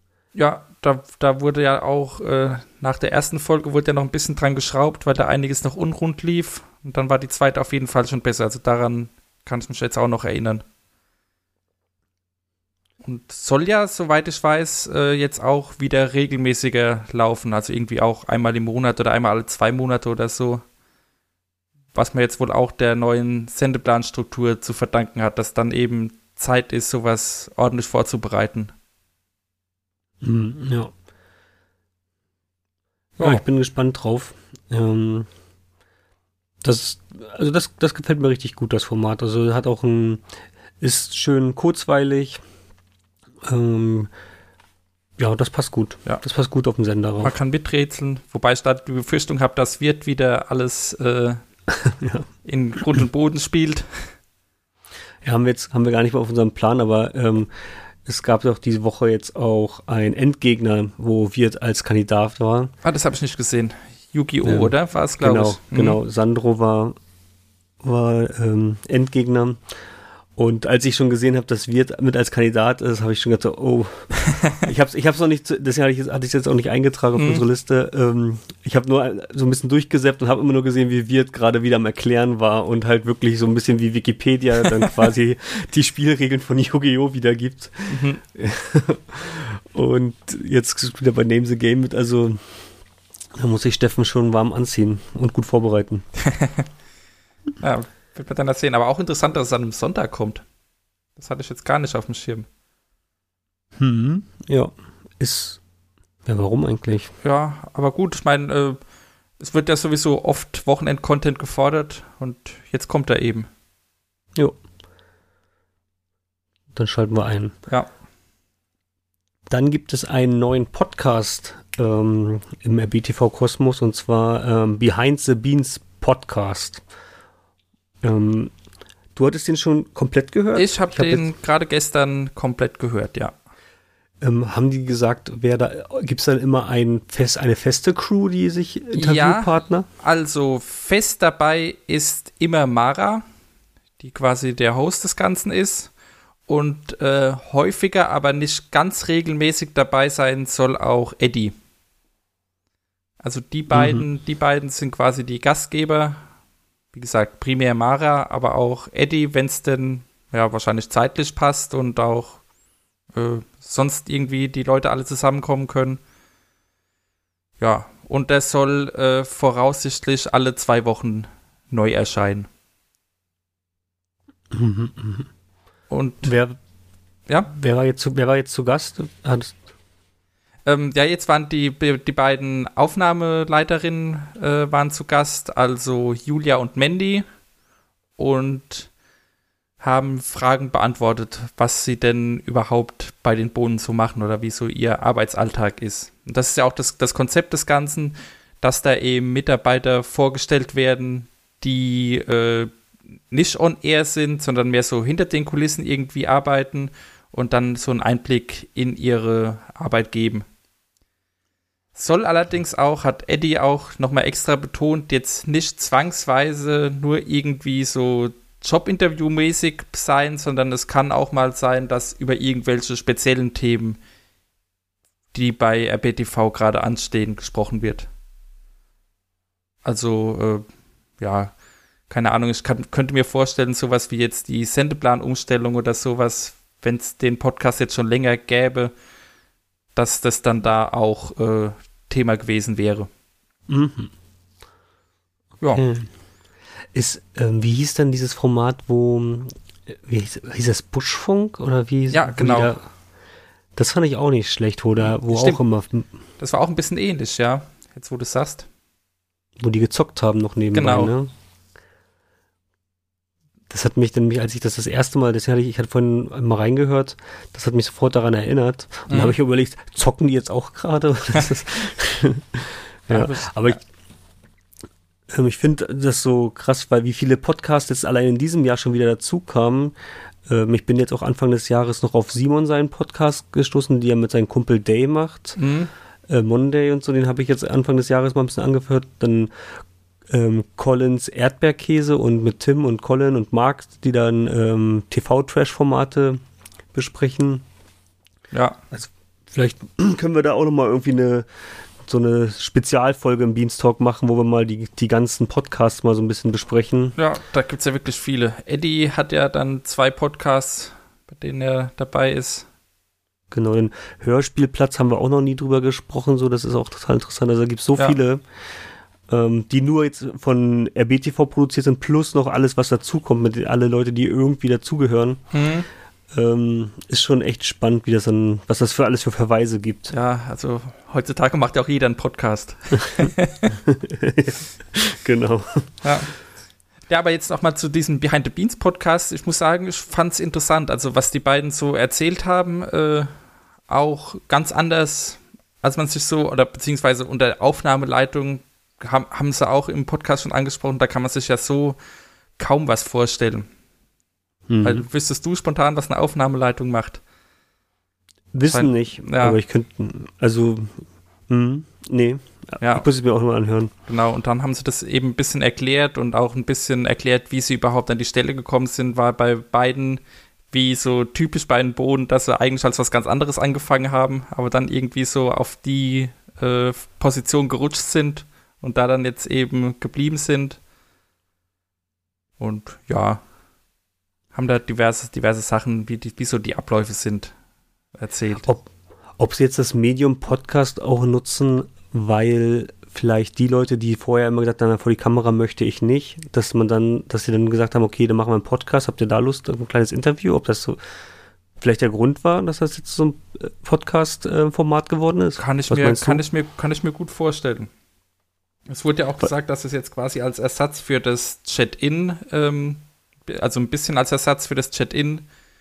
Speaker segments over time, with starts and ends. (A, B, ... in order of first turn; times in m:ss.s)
0:00.4-0:10.6 A
0:13.0-0:20.6 A
0:22.0-0:28.7 A
0:30.2-0:30.9 B
0:33.2-0:33.4 A
0:33.2-0:35.3 B
0:36.6-0:40.2 B
0:40.8-0:42.4 B
0:43.4-0:44.1 B
0:45.2-0:47.3 B
0:47.2-0:51.4 A
0:51.7-0:52.3 B
0:52.4-0:54.1 A
0:55.2-0:57.5 B
0:58.0-1:02.7 B
1:02.8-1:06.0 A
1:04.4-1:07.0 B
1:07.8-1:09.6 B
1:10.4-1:32.4 B
1:17.2-1:17.4 A
1:27.9-1:28.2 A
1:33.4-1:36.1 B
1:36.2-1:36.6 A
1:37.6-1:40.4 A
1:41.2-1:42.5 A
1:43.8-1:45.6 B
1:46.3-1:47.1 B
1:47.2-1:48.8 A
1:49.4-1:53.5 A
1:56.8-1:57.5 B
1:59.5-2:06.8 B
2:08.0-2:08.5 B
2:09.2-2:11.3 B
2:10.6-2:13.4 A
2:14.2-2:19.9 B
2:19.0-2:23.2 A
2:24.0-2:25.9 A
2:26.5-2:31.6 A
2:33.2-2:36.2 A
2:33.7-2:34.0 B
2:36.9-2:42.4 A
2:43.1-2:46.0 A
2:47.6-2:52.5 A
2:54.5-2:55.3 B
2:55.9-2:56.3 A
2:56.2-2:56.6 B
2:57.5-2:59.6 B
3:00.7-3:07.2 A
3:08.2-3:08.9 A
3:09.8-3:22.7 A
3:23.3-3:30.4 A
3:32.0-3:44.0 A
3:45.3-3:48.1 A
3:49.8-3:50.6 A
3:51.2-3:51.6 A
3:52.1-3:58.9 A
4:00.0-4:03.1 A
4:03.7-4:04.1 B
4:05.7-4:06.1 B
4:06.9-4:12.8 B
4:12.1-4:12.7 A
4:13.8-4:16.1 B
4:15.0-4:15.6 A
4:16.4-4:18.7 A
4:19.6-4:21.3 B
4:20.7-4:21.1 A
4:23.7-4:33.8 B
4:29.1-4:29.4 A
4:33.1-4:33.8 A
4:35.3-4:40.0 B
4:40.5-4:45.6 B
4:45.6-4:45.9 A
4:46.3-4:49.5 B
4:50.3-4:56.4 B
4:56.9-4:57.6 B
4:58.5-4:58.8 A
4:58.9-5:01.5 B
5:02.0-5:07.2 B
5:07.2-5:12.6 A
5:13.5-5:18.4 B
5:19.3-5:25.4 B
5:25.5-5:25.9 A
5:26.3-5:30.1 B
5:30.1-5:33.7 A
5:33.7-5:35.9 B
5:36.0-5:36.3 A
5:37.1-5:43.3 A
5:43.9-5:52.0 A
5:52.6-5:53.7 A
5:54.7-5:55.0 B
5:54.8-5:57.2 A
5:58.5-6:03.9 B
5:58.6-5:59.6 A
6:02.8-6:03.1 A
6:04.1-6:20.8 A
6:22.6-6:23.4 A
6:24.5-6:27.5 A
6:28.2-6:28.7 A
6:28.6-6:41.0 B
6:41.8-6:46.4 B
6:45.6-6:47.9 A
6:48.9-6:55.5 A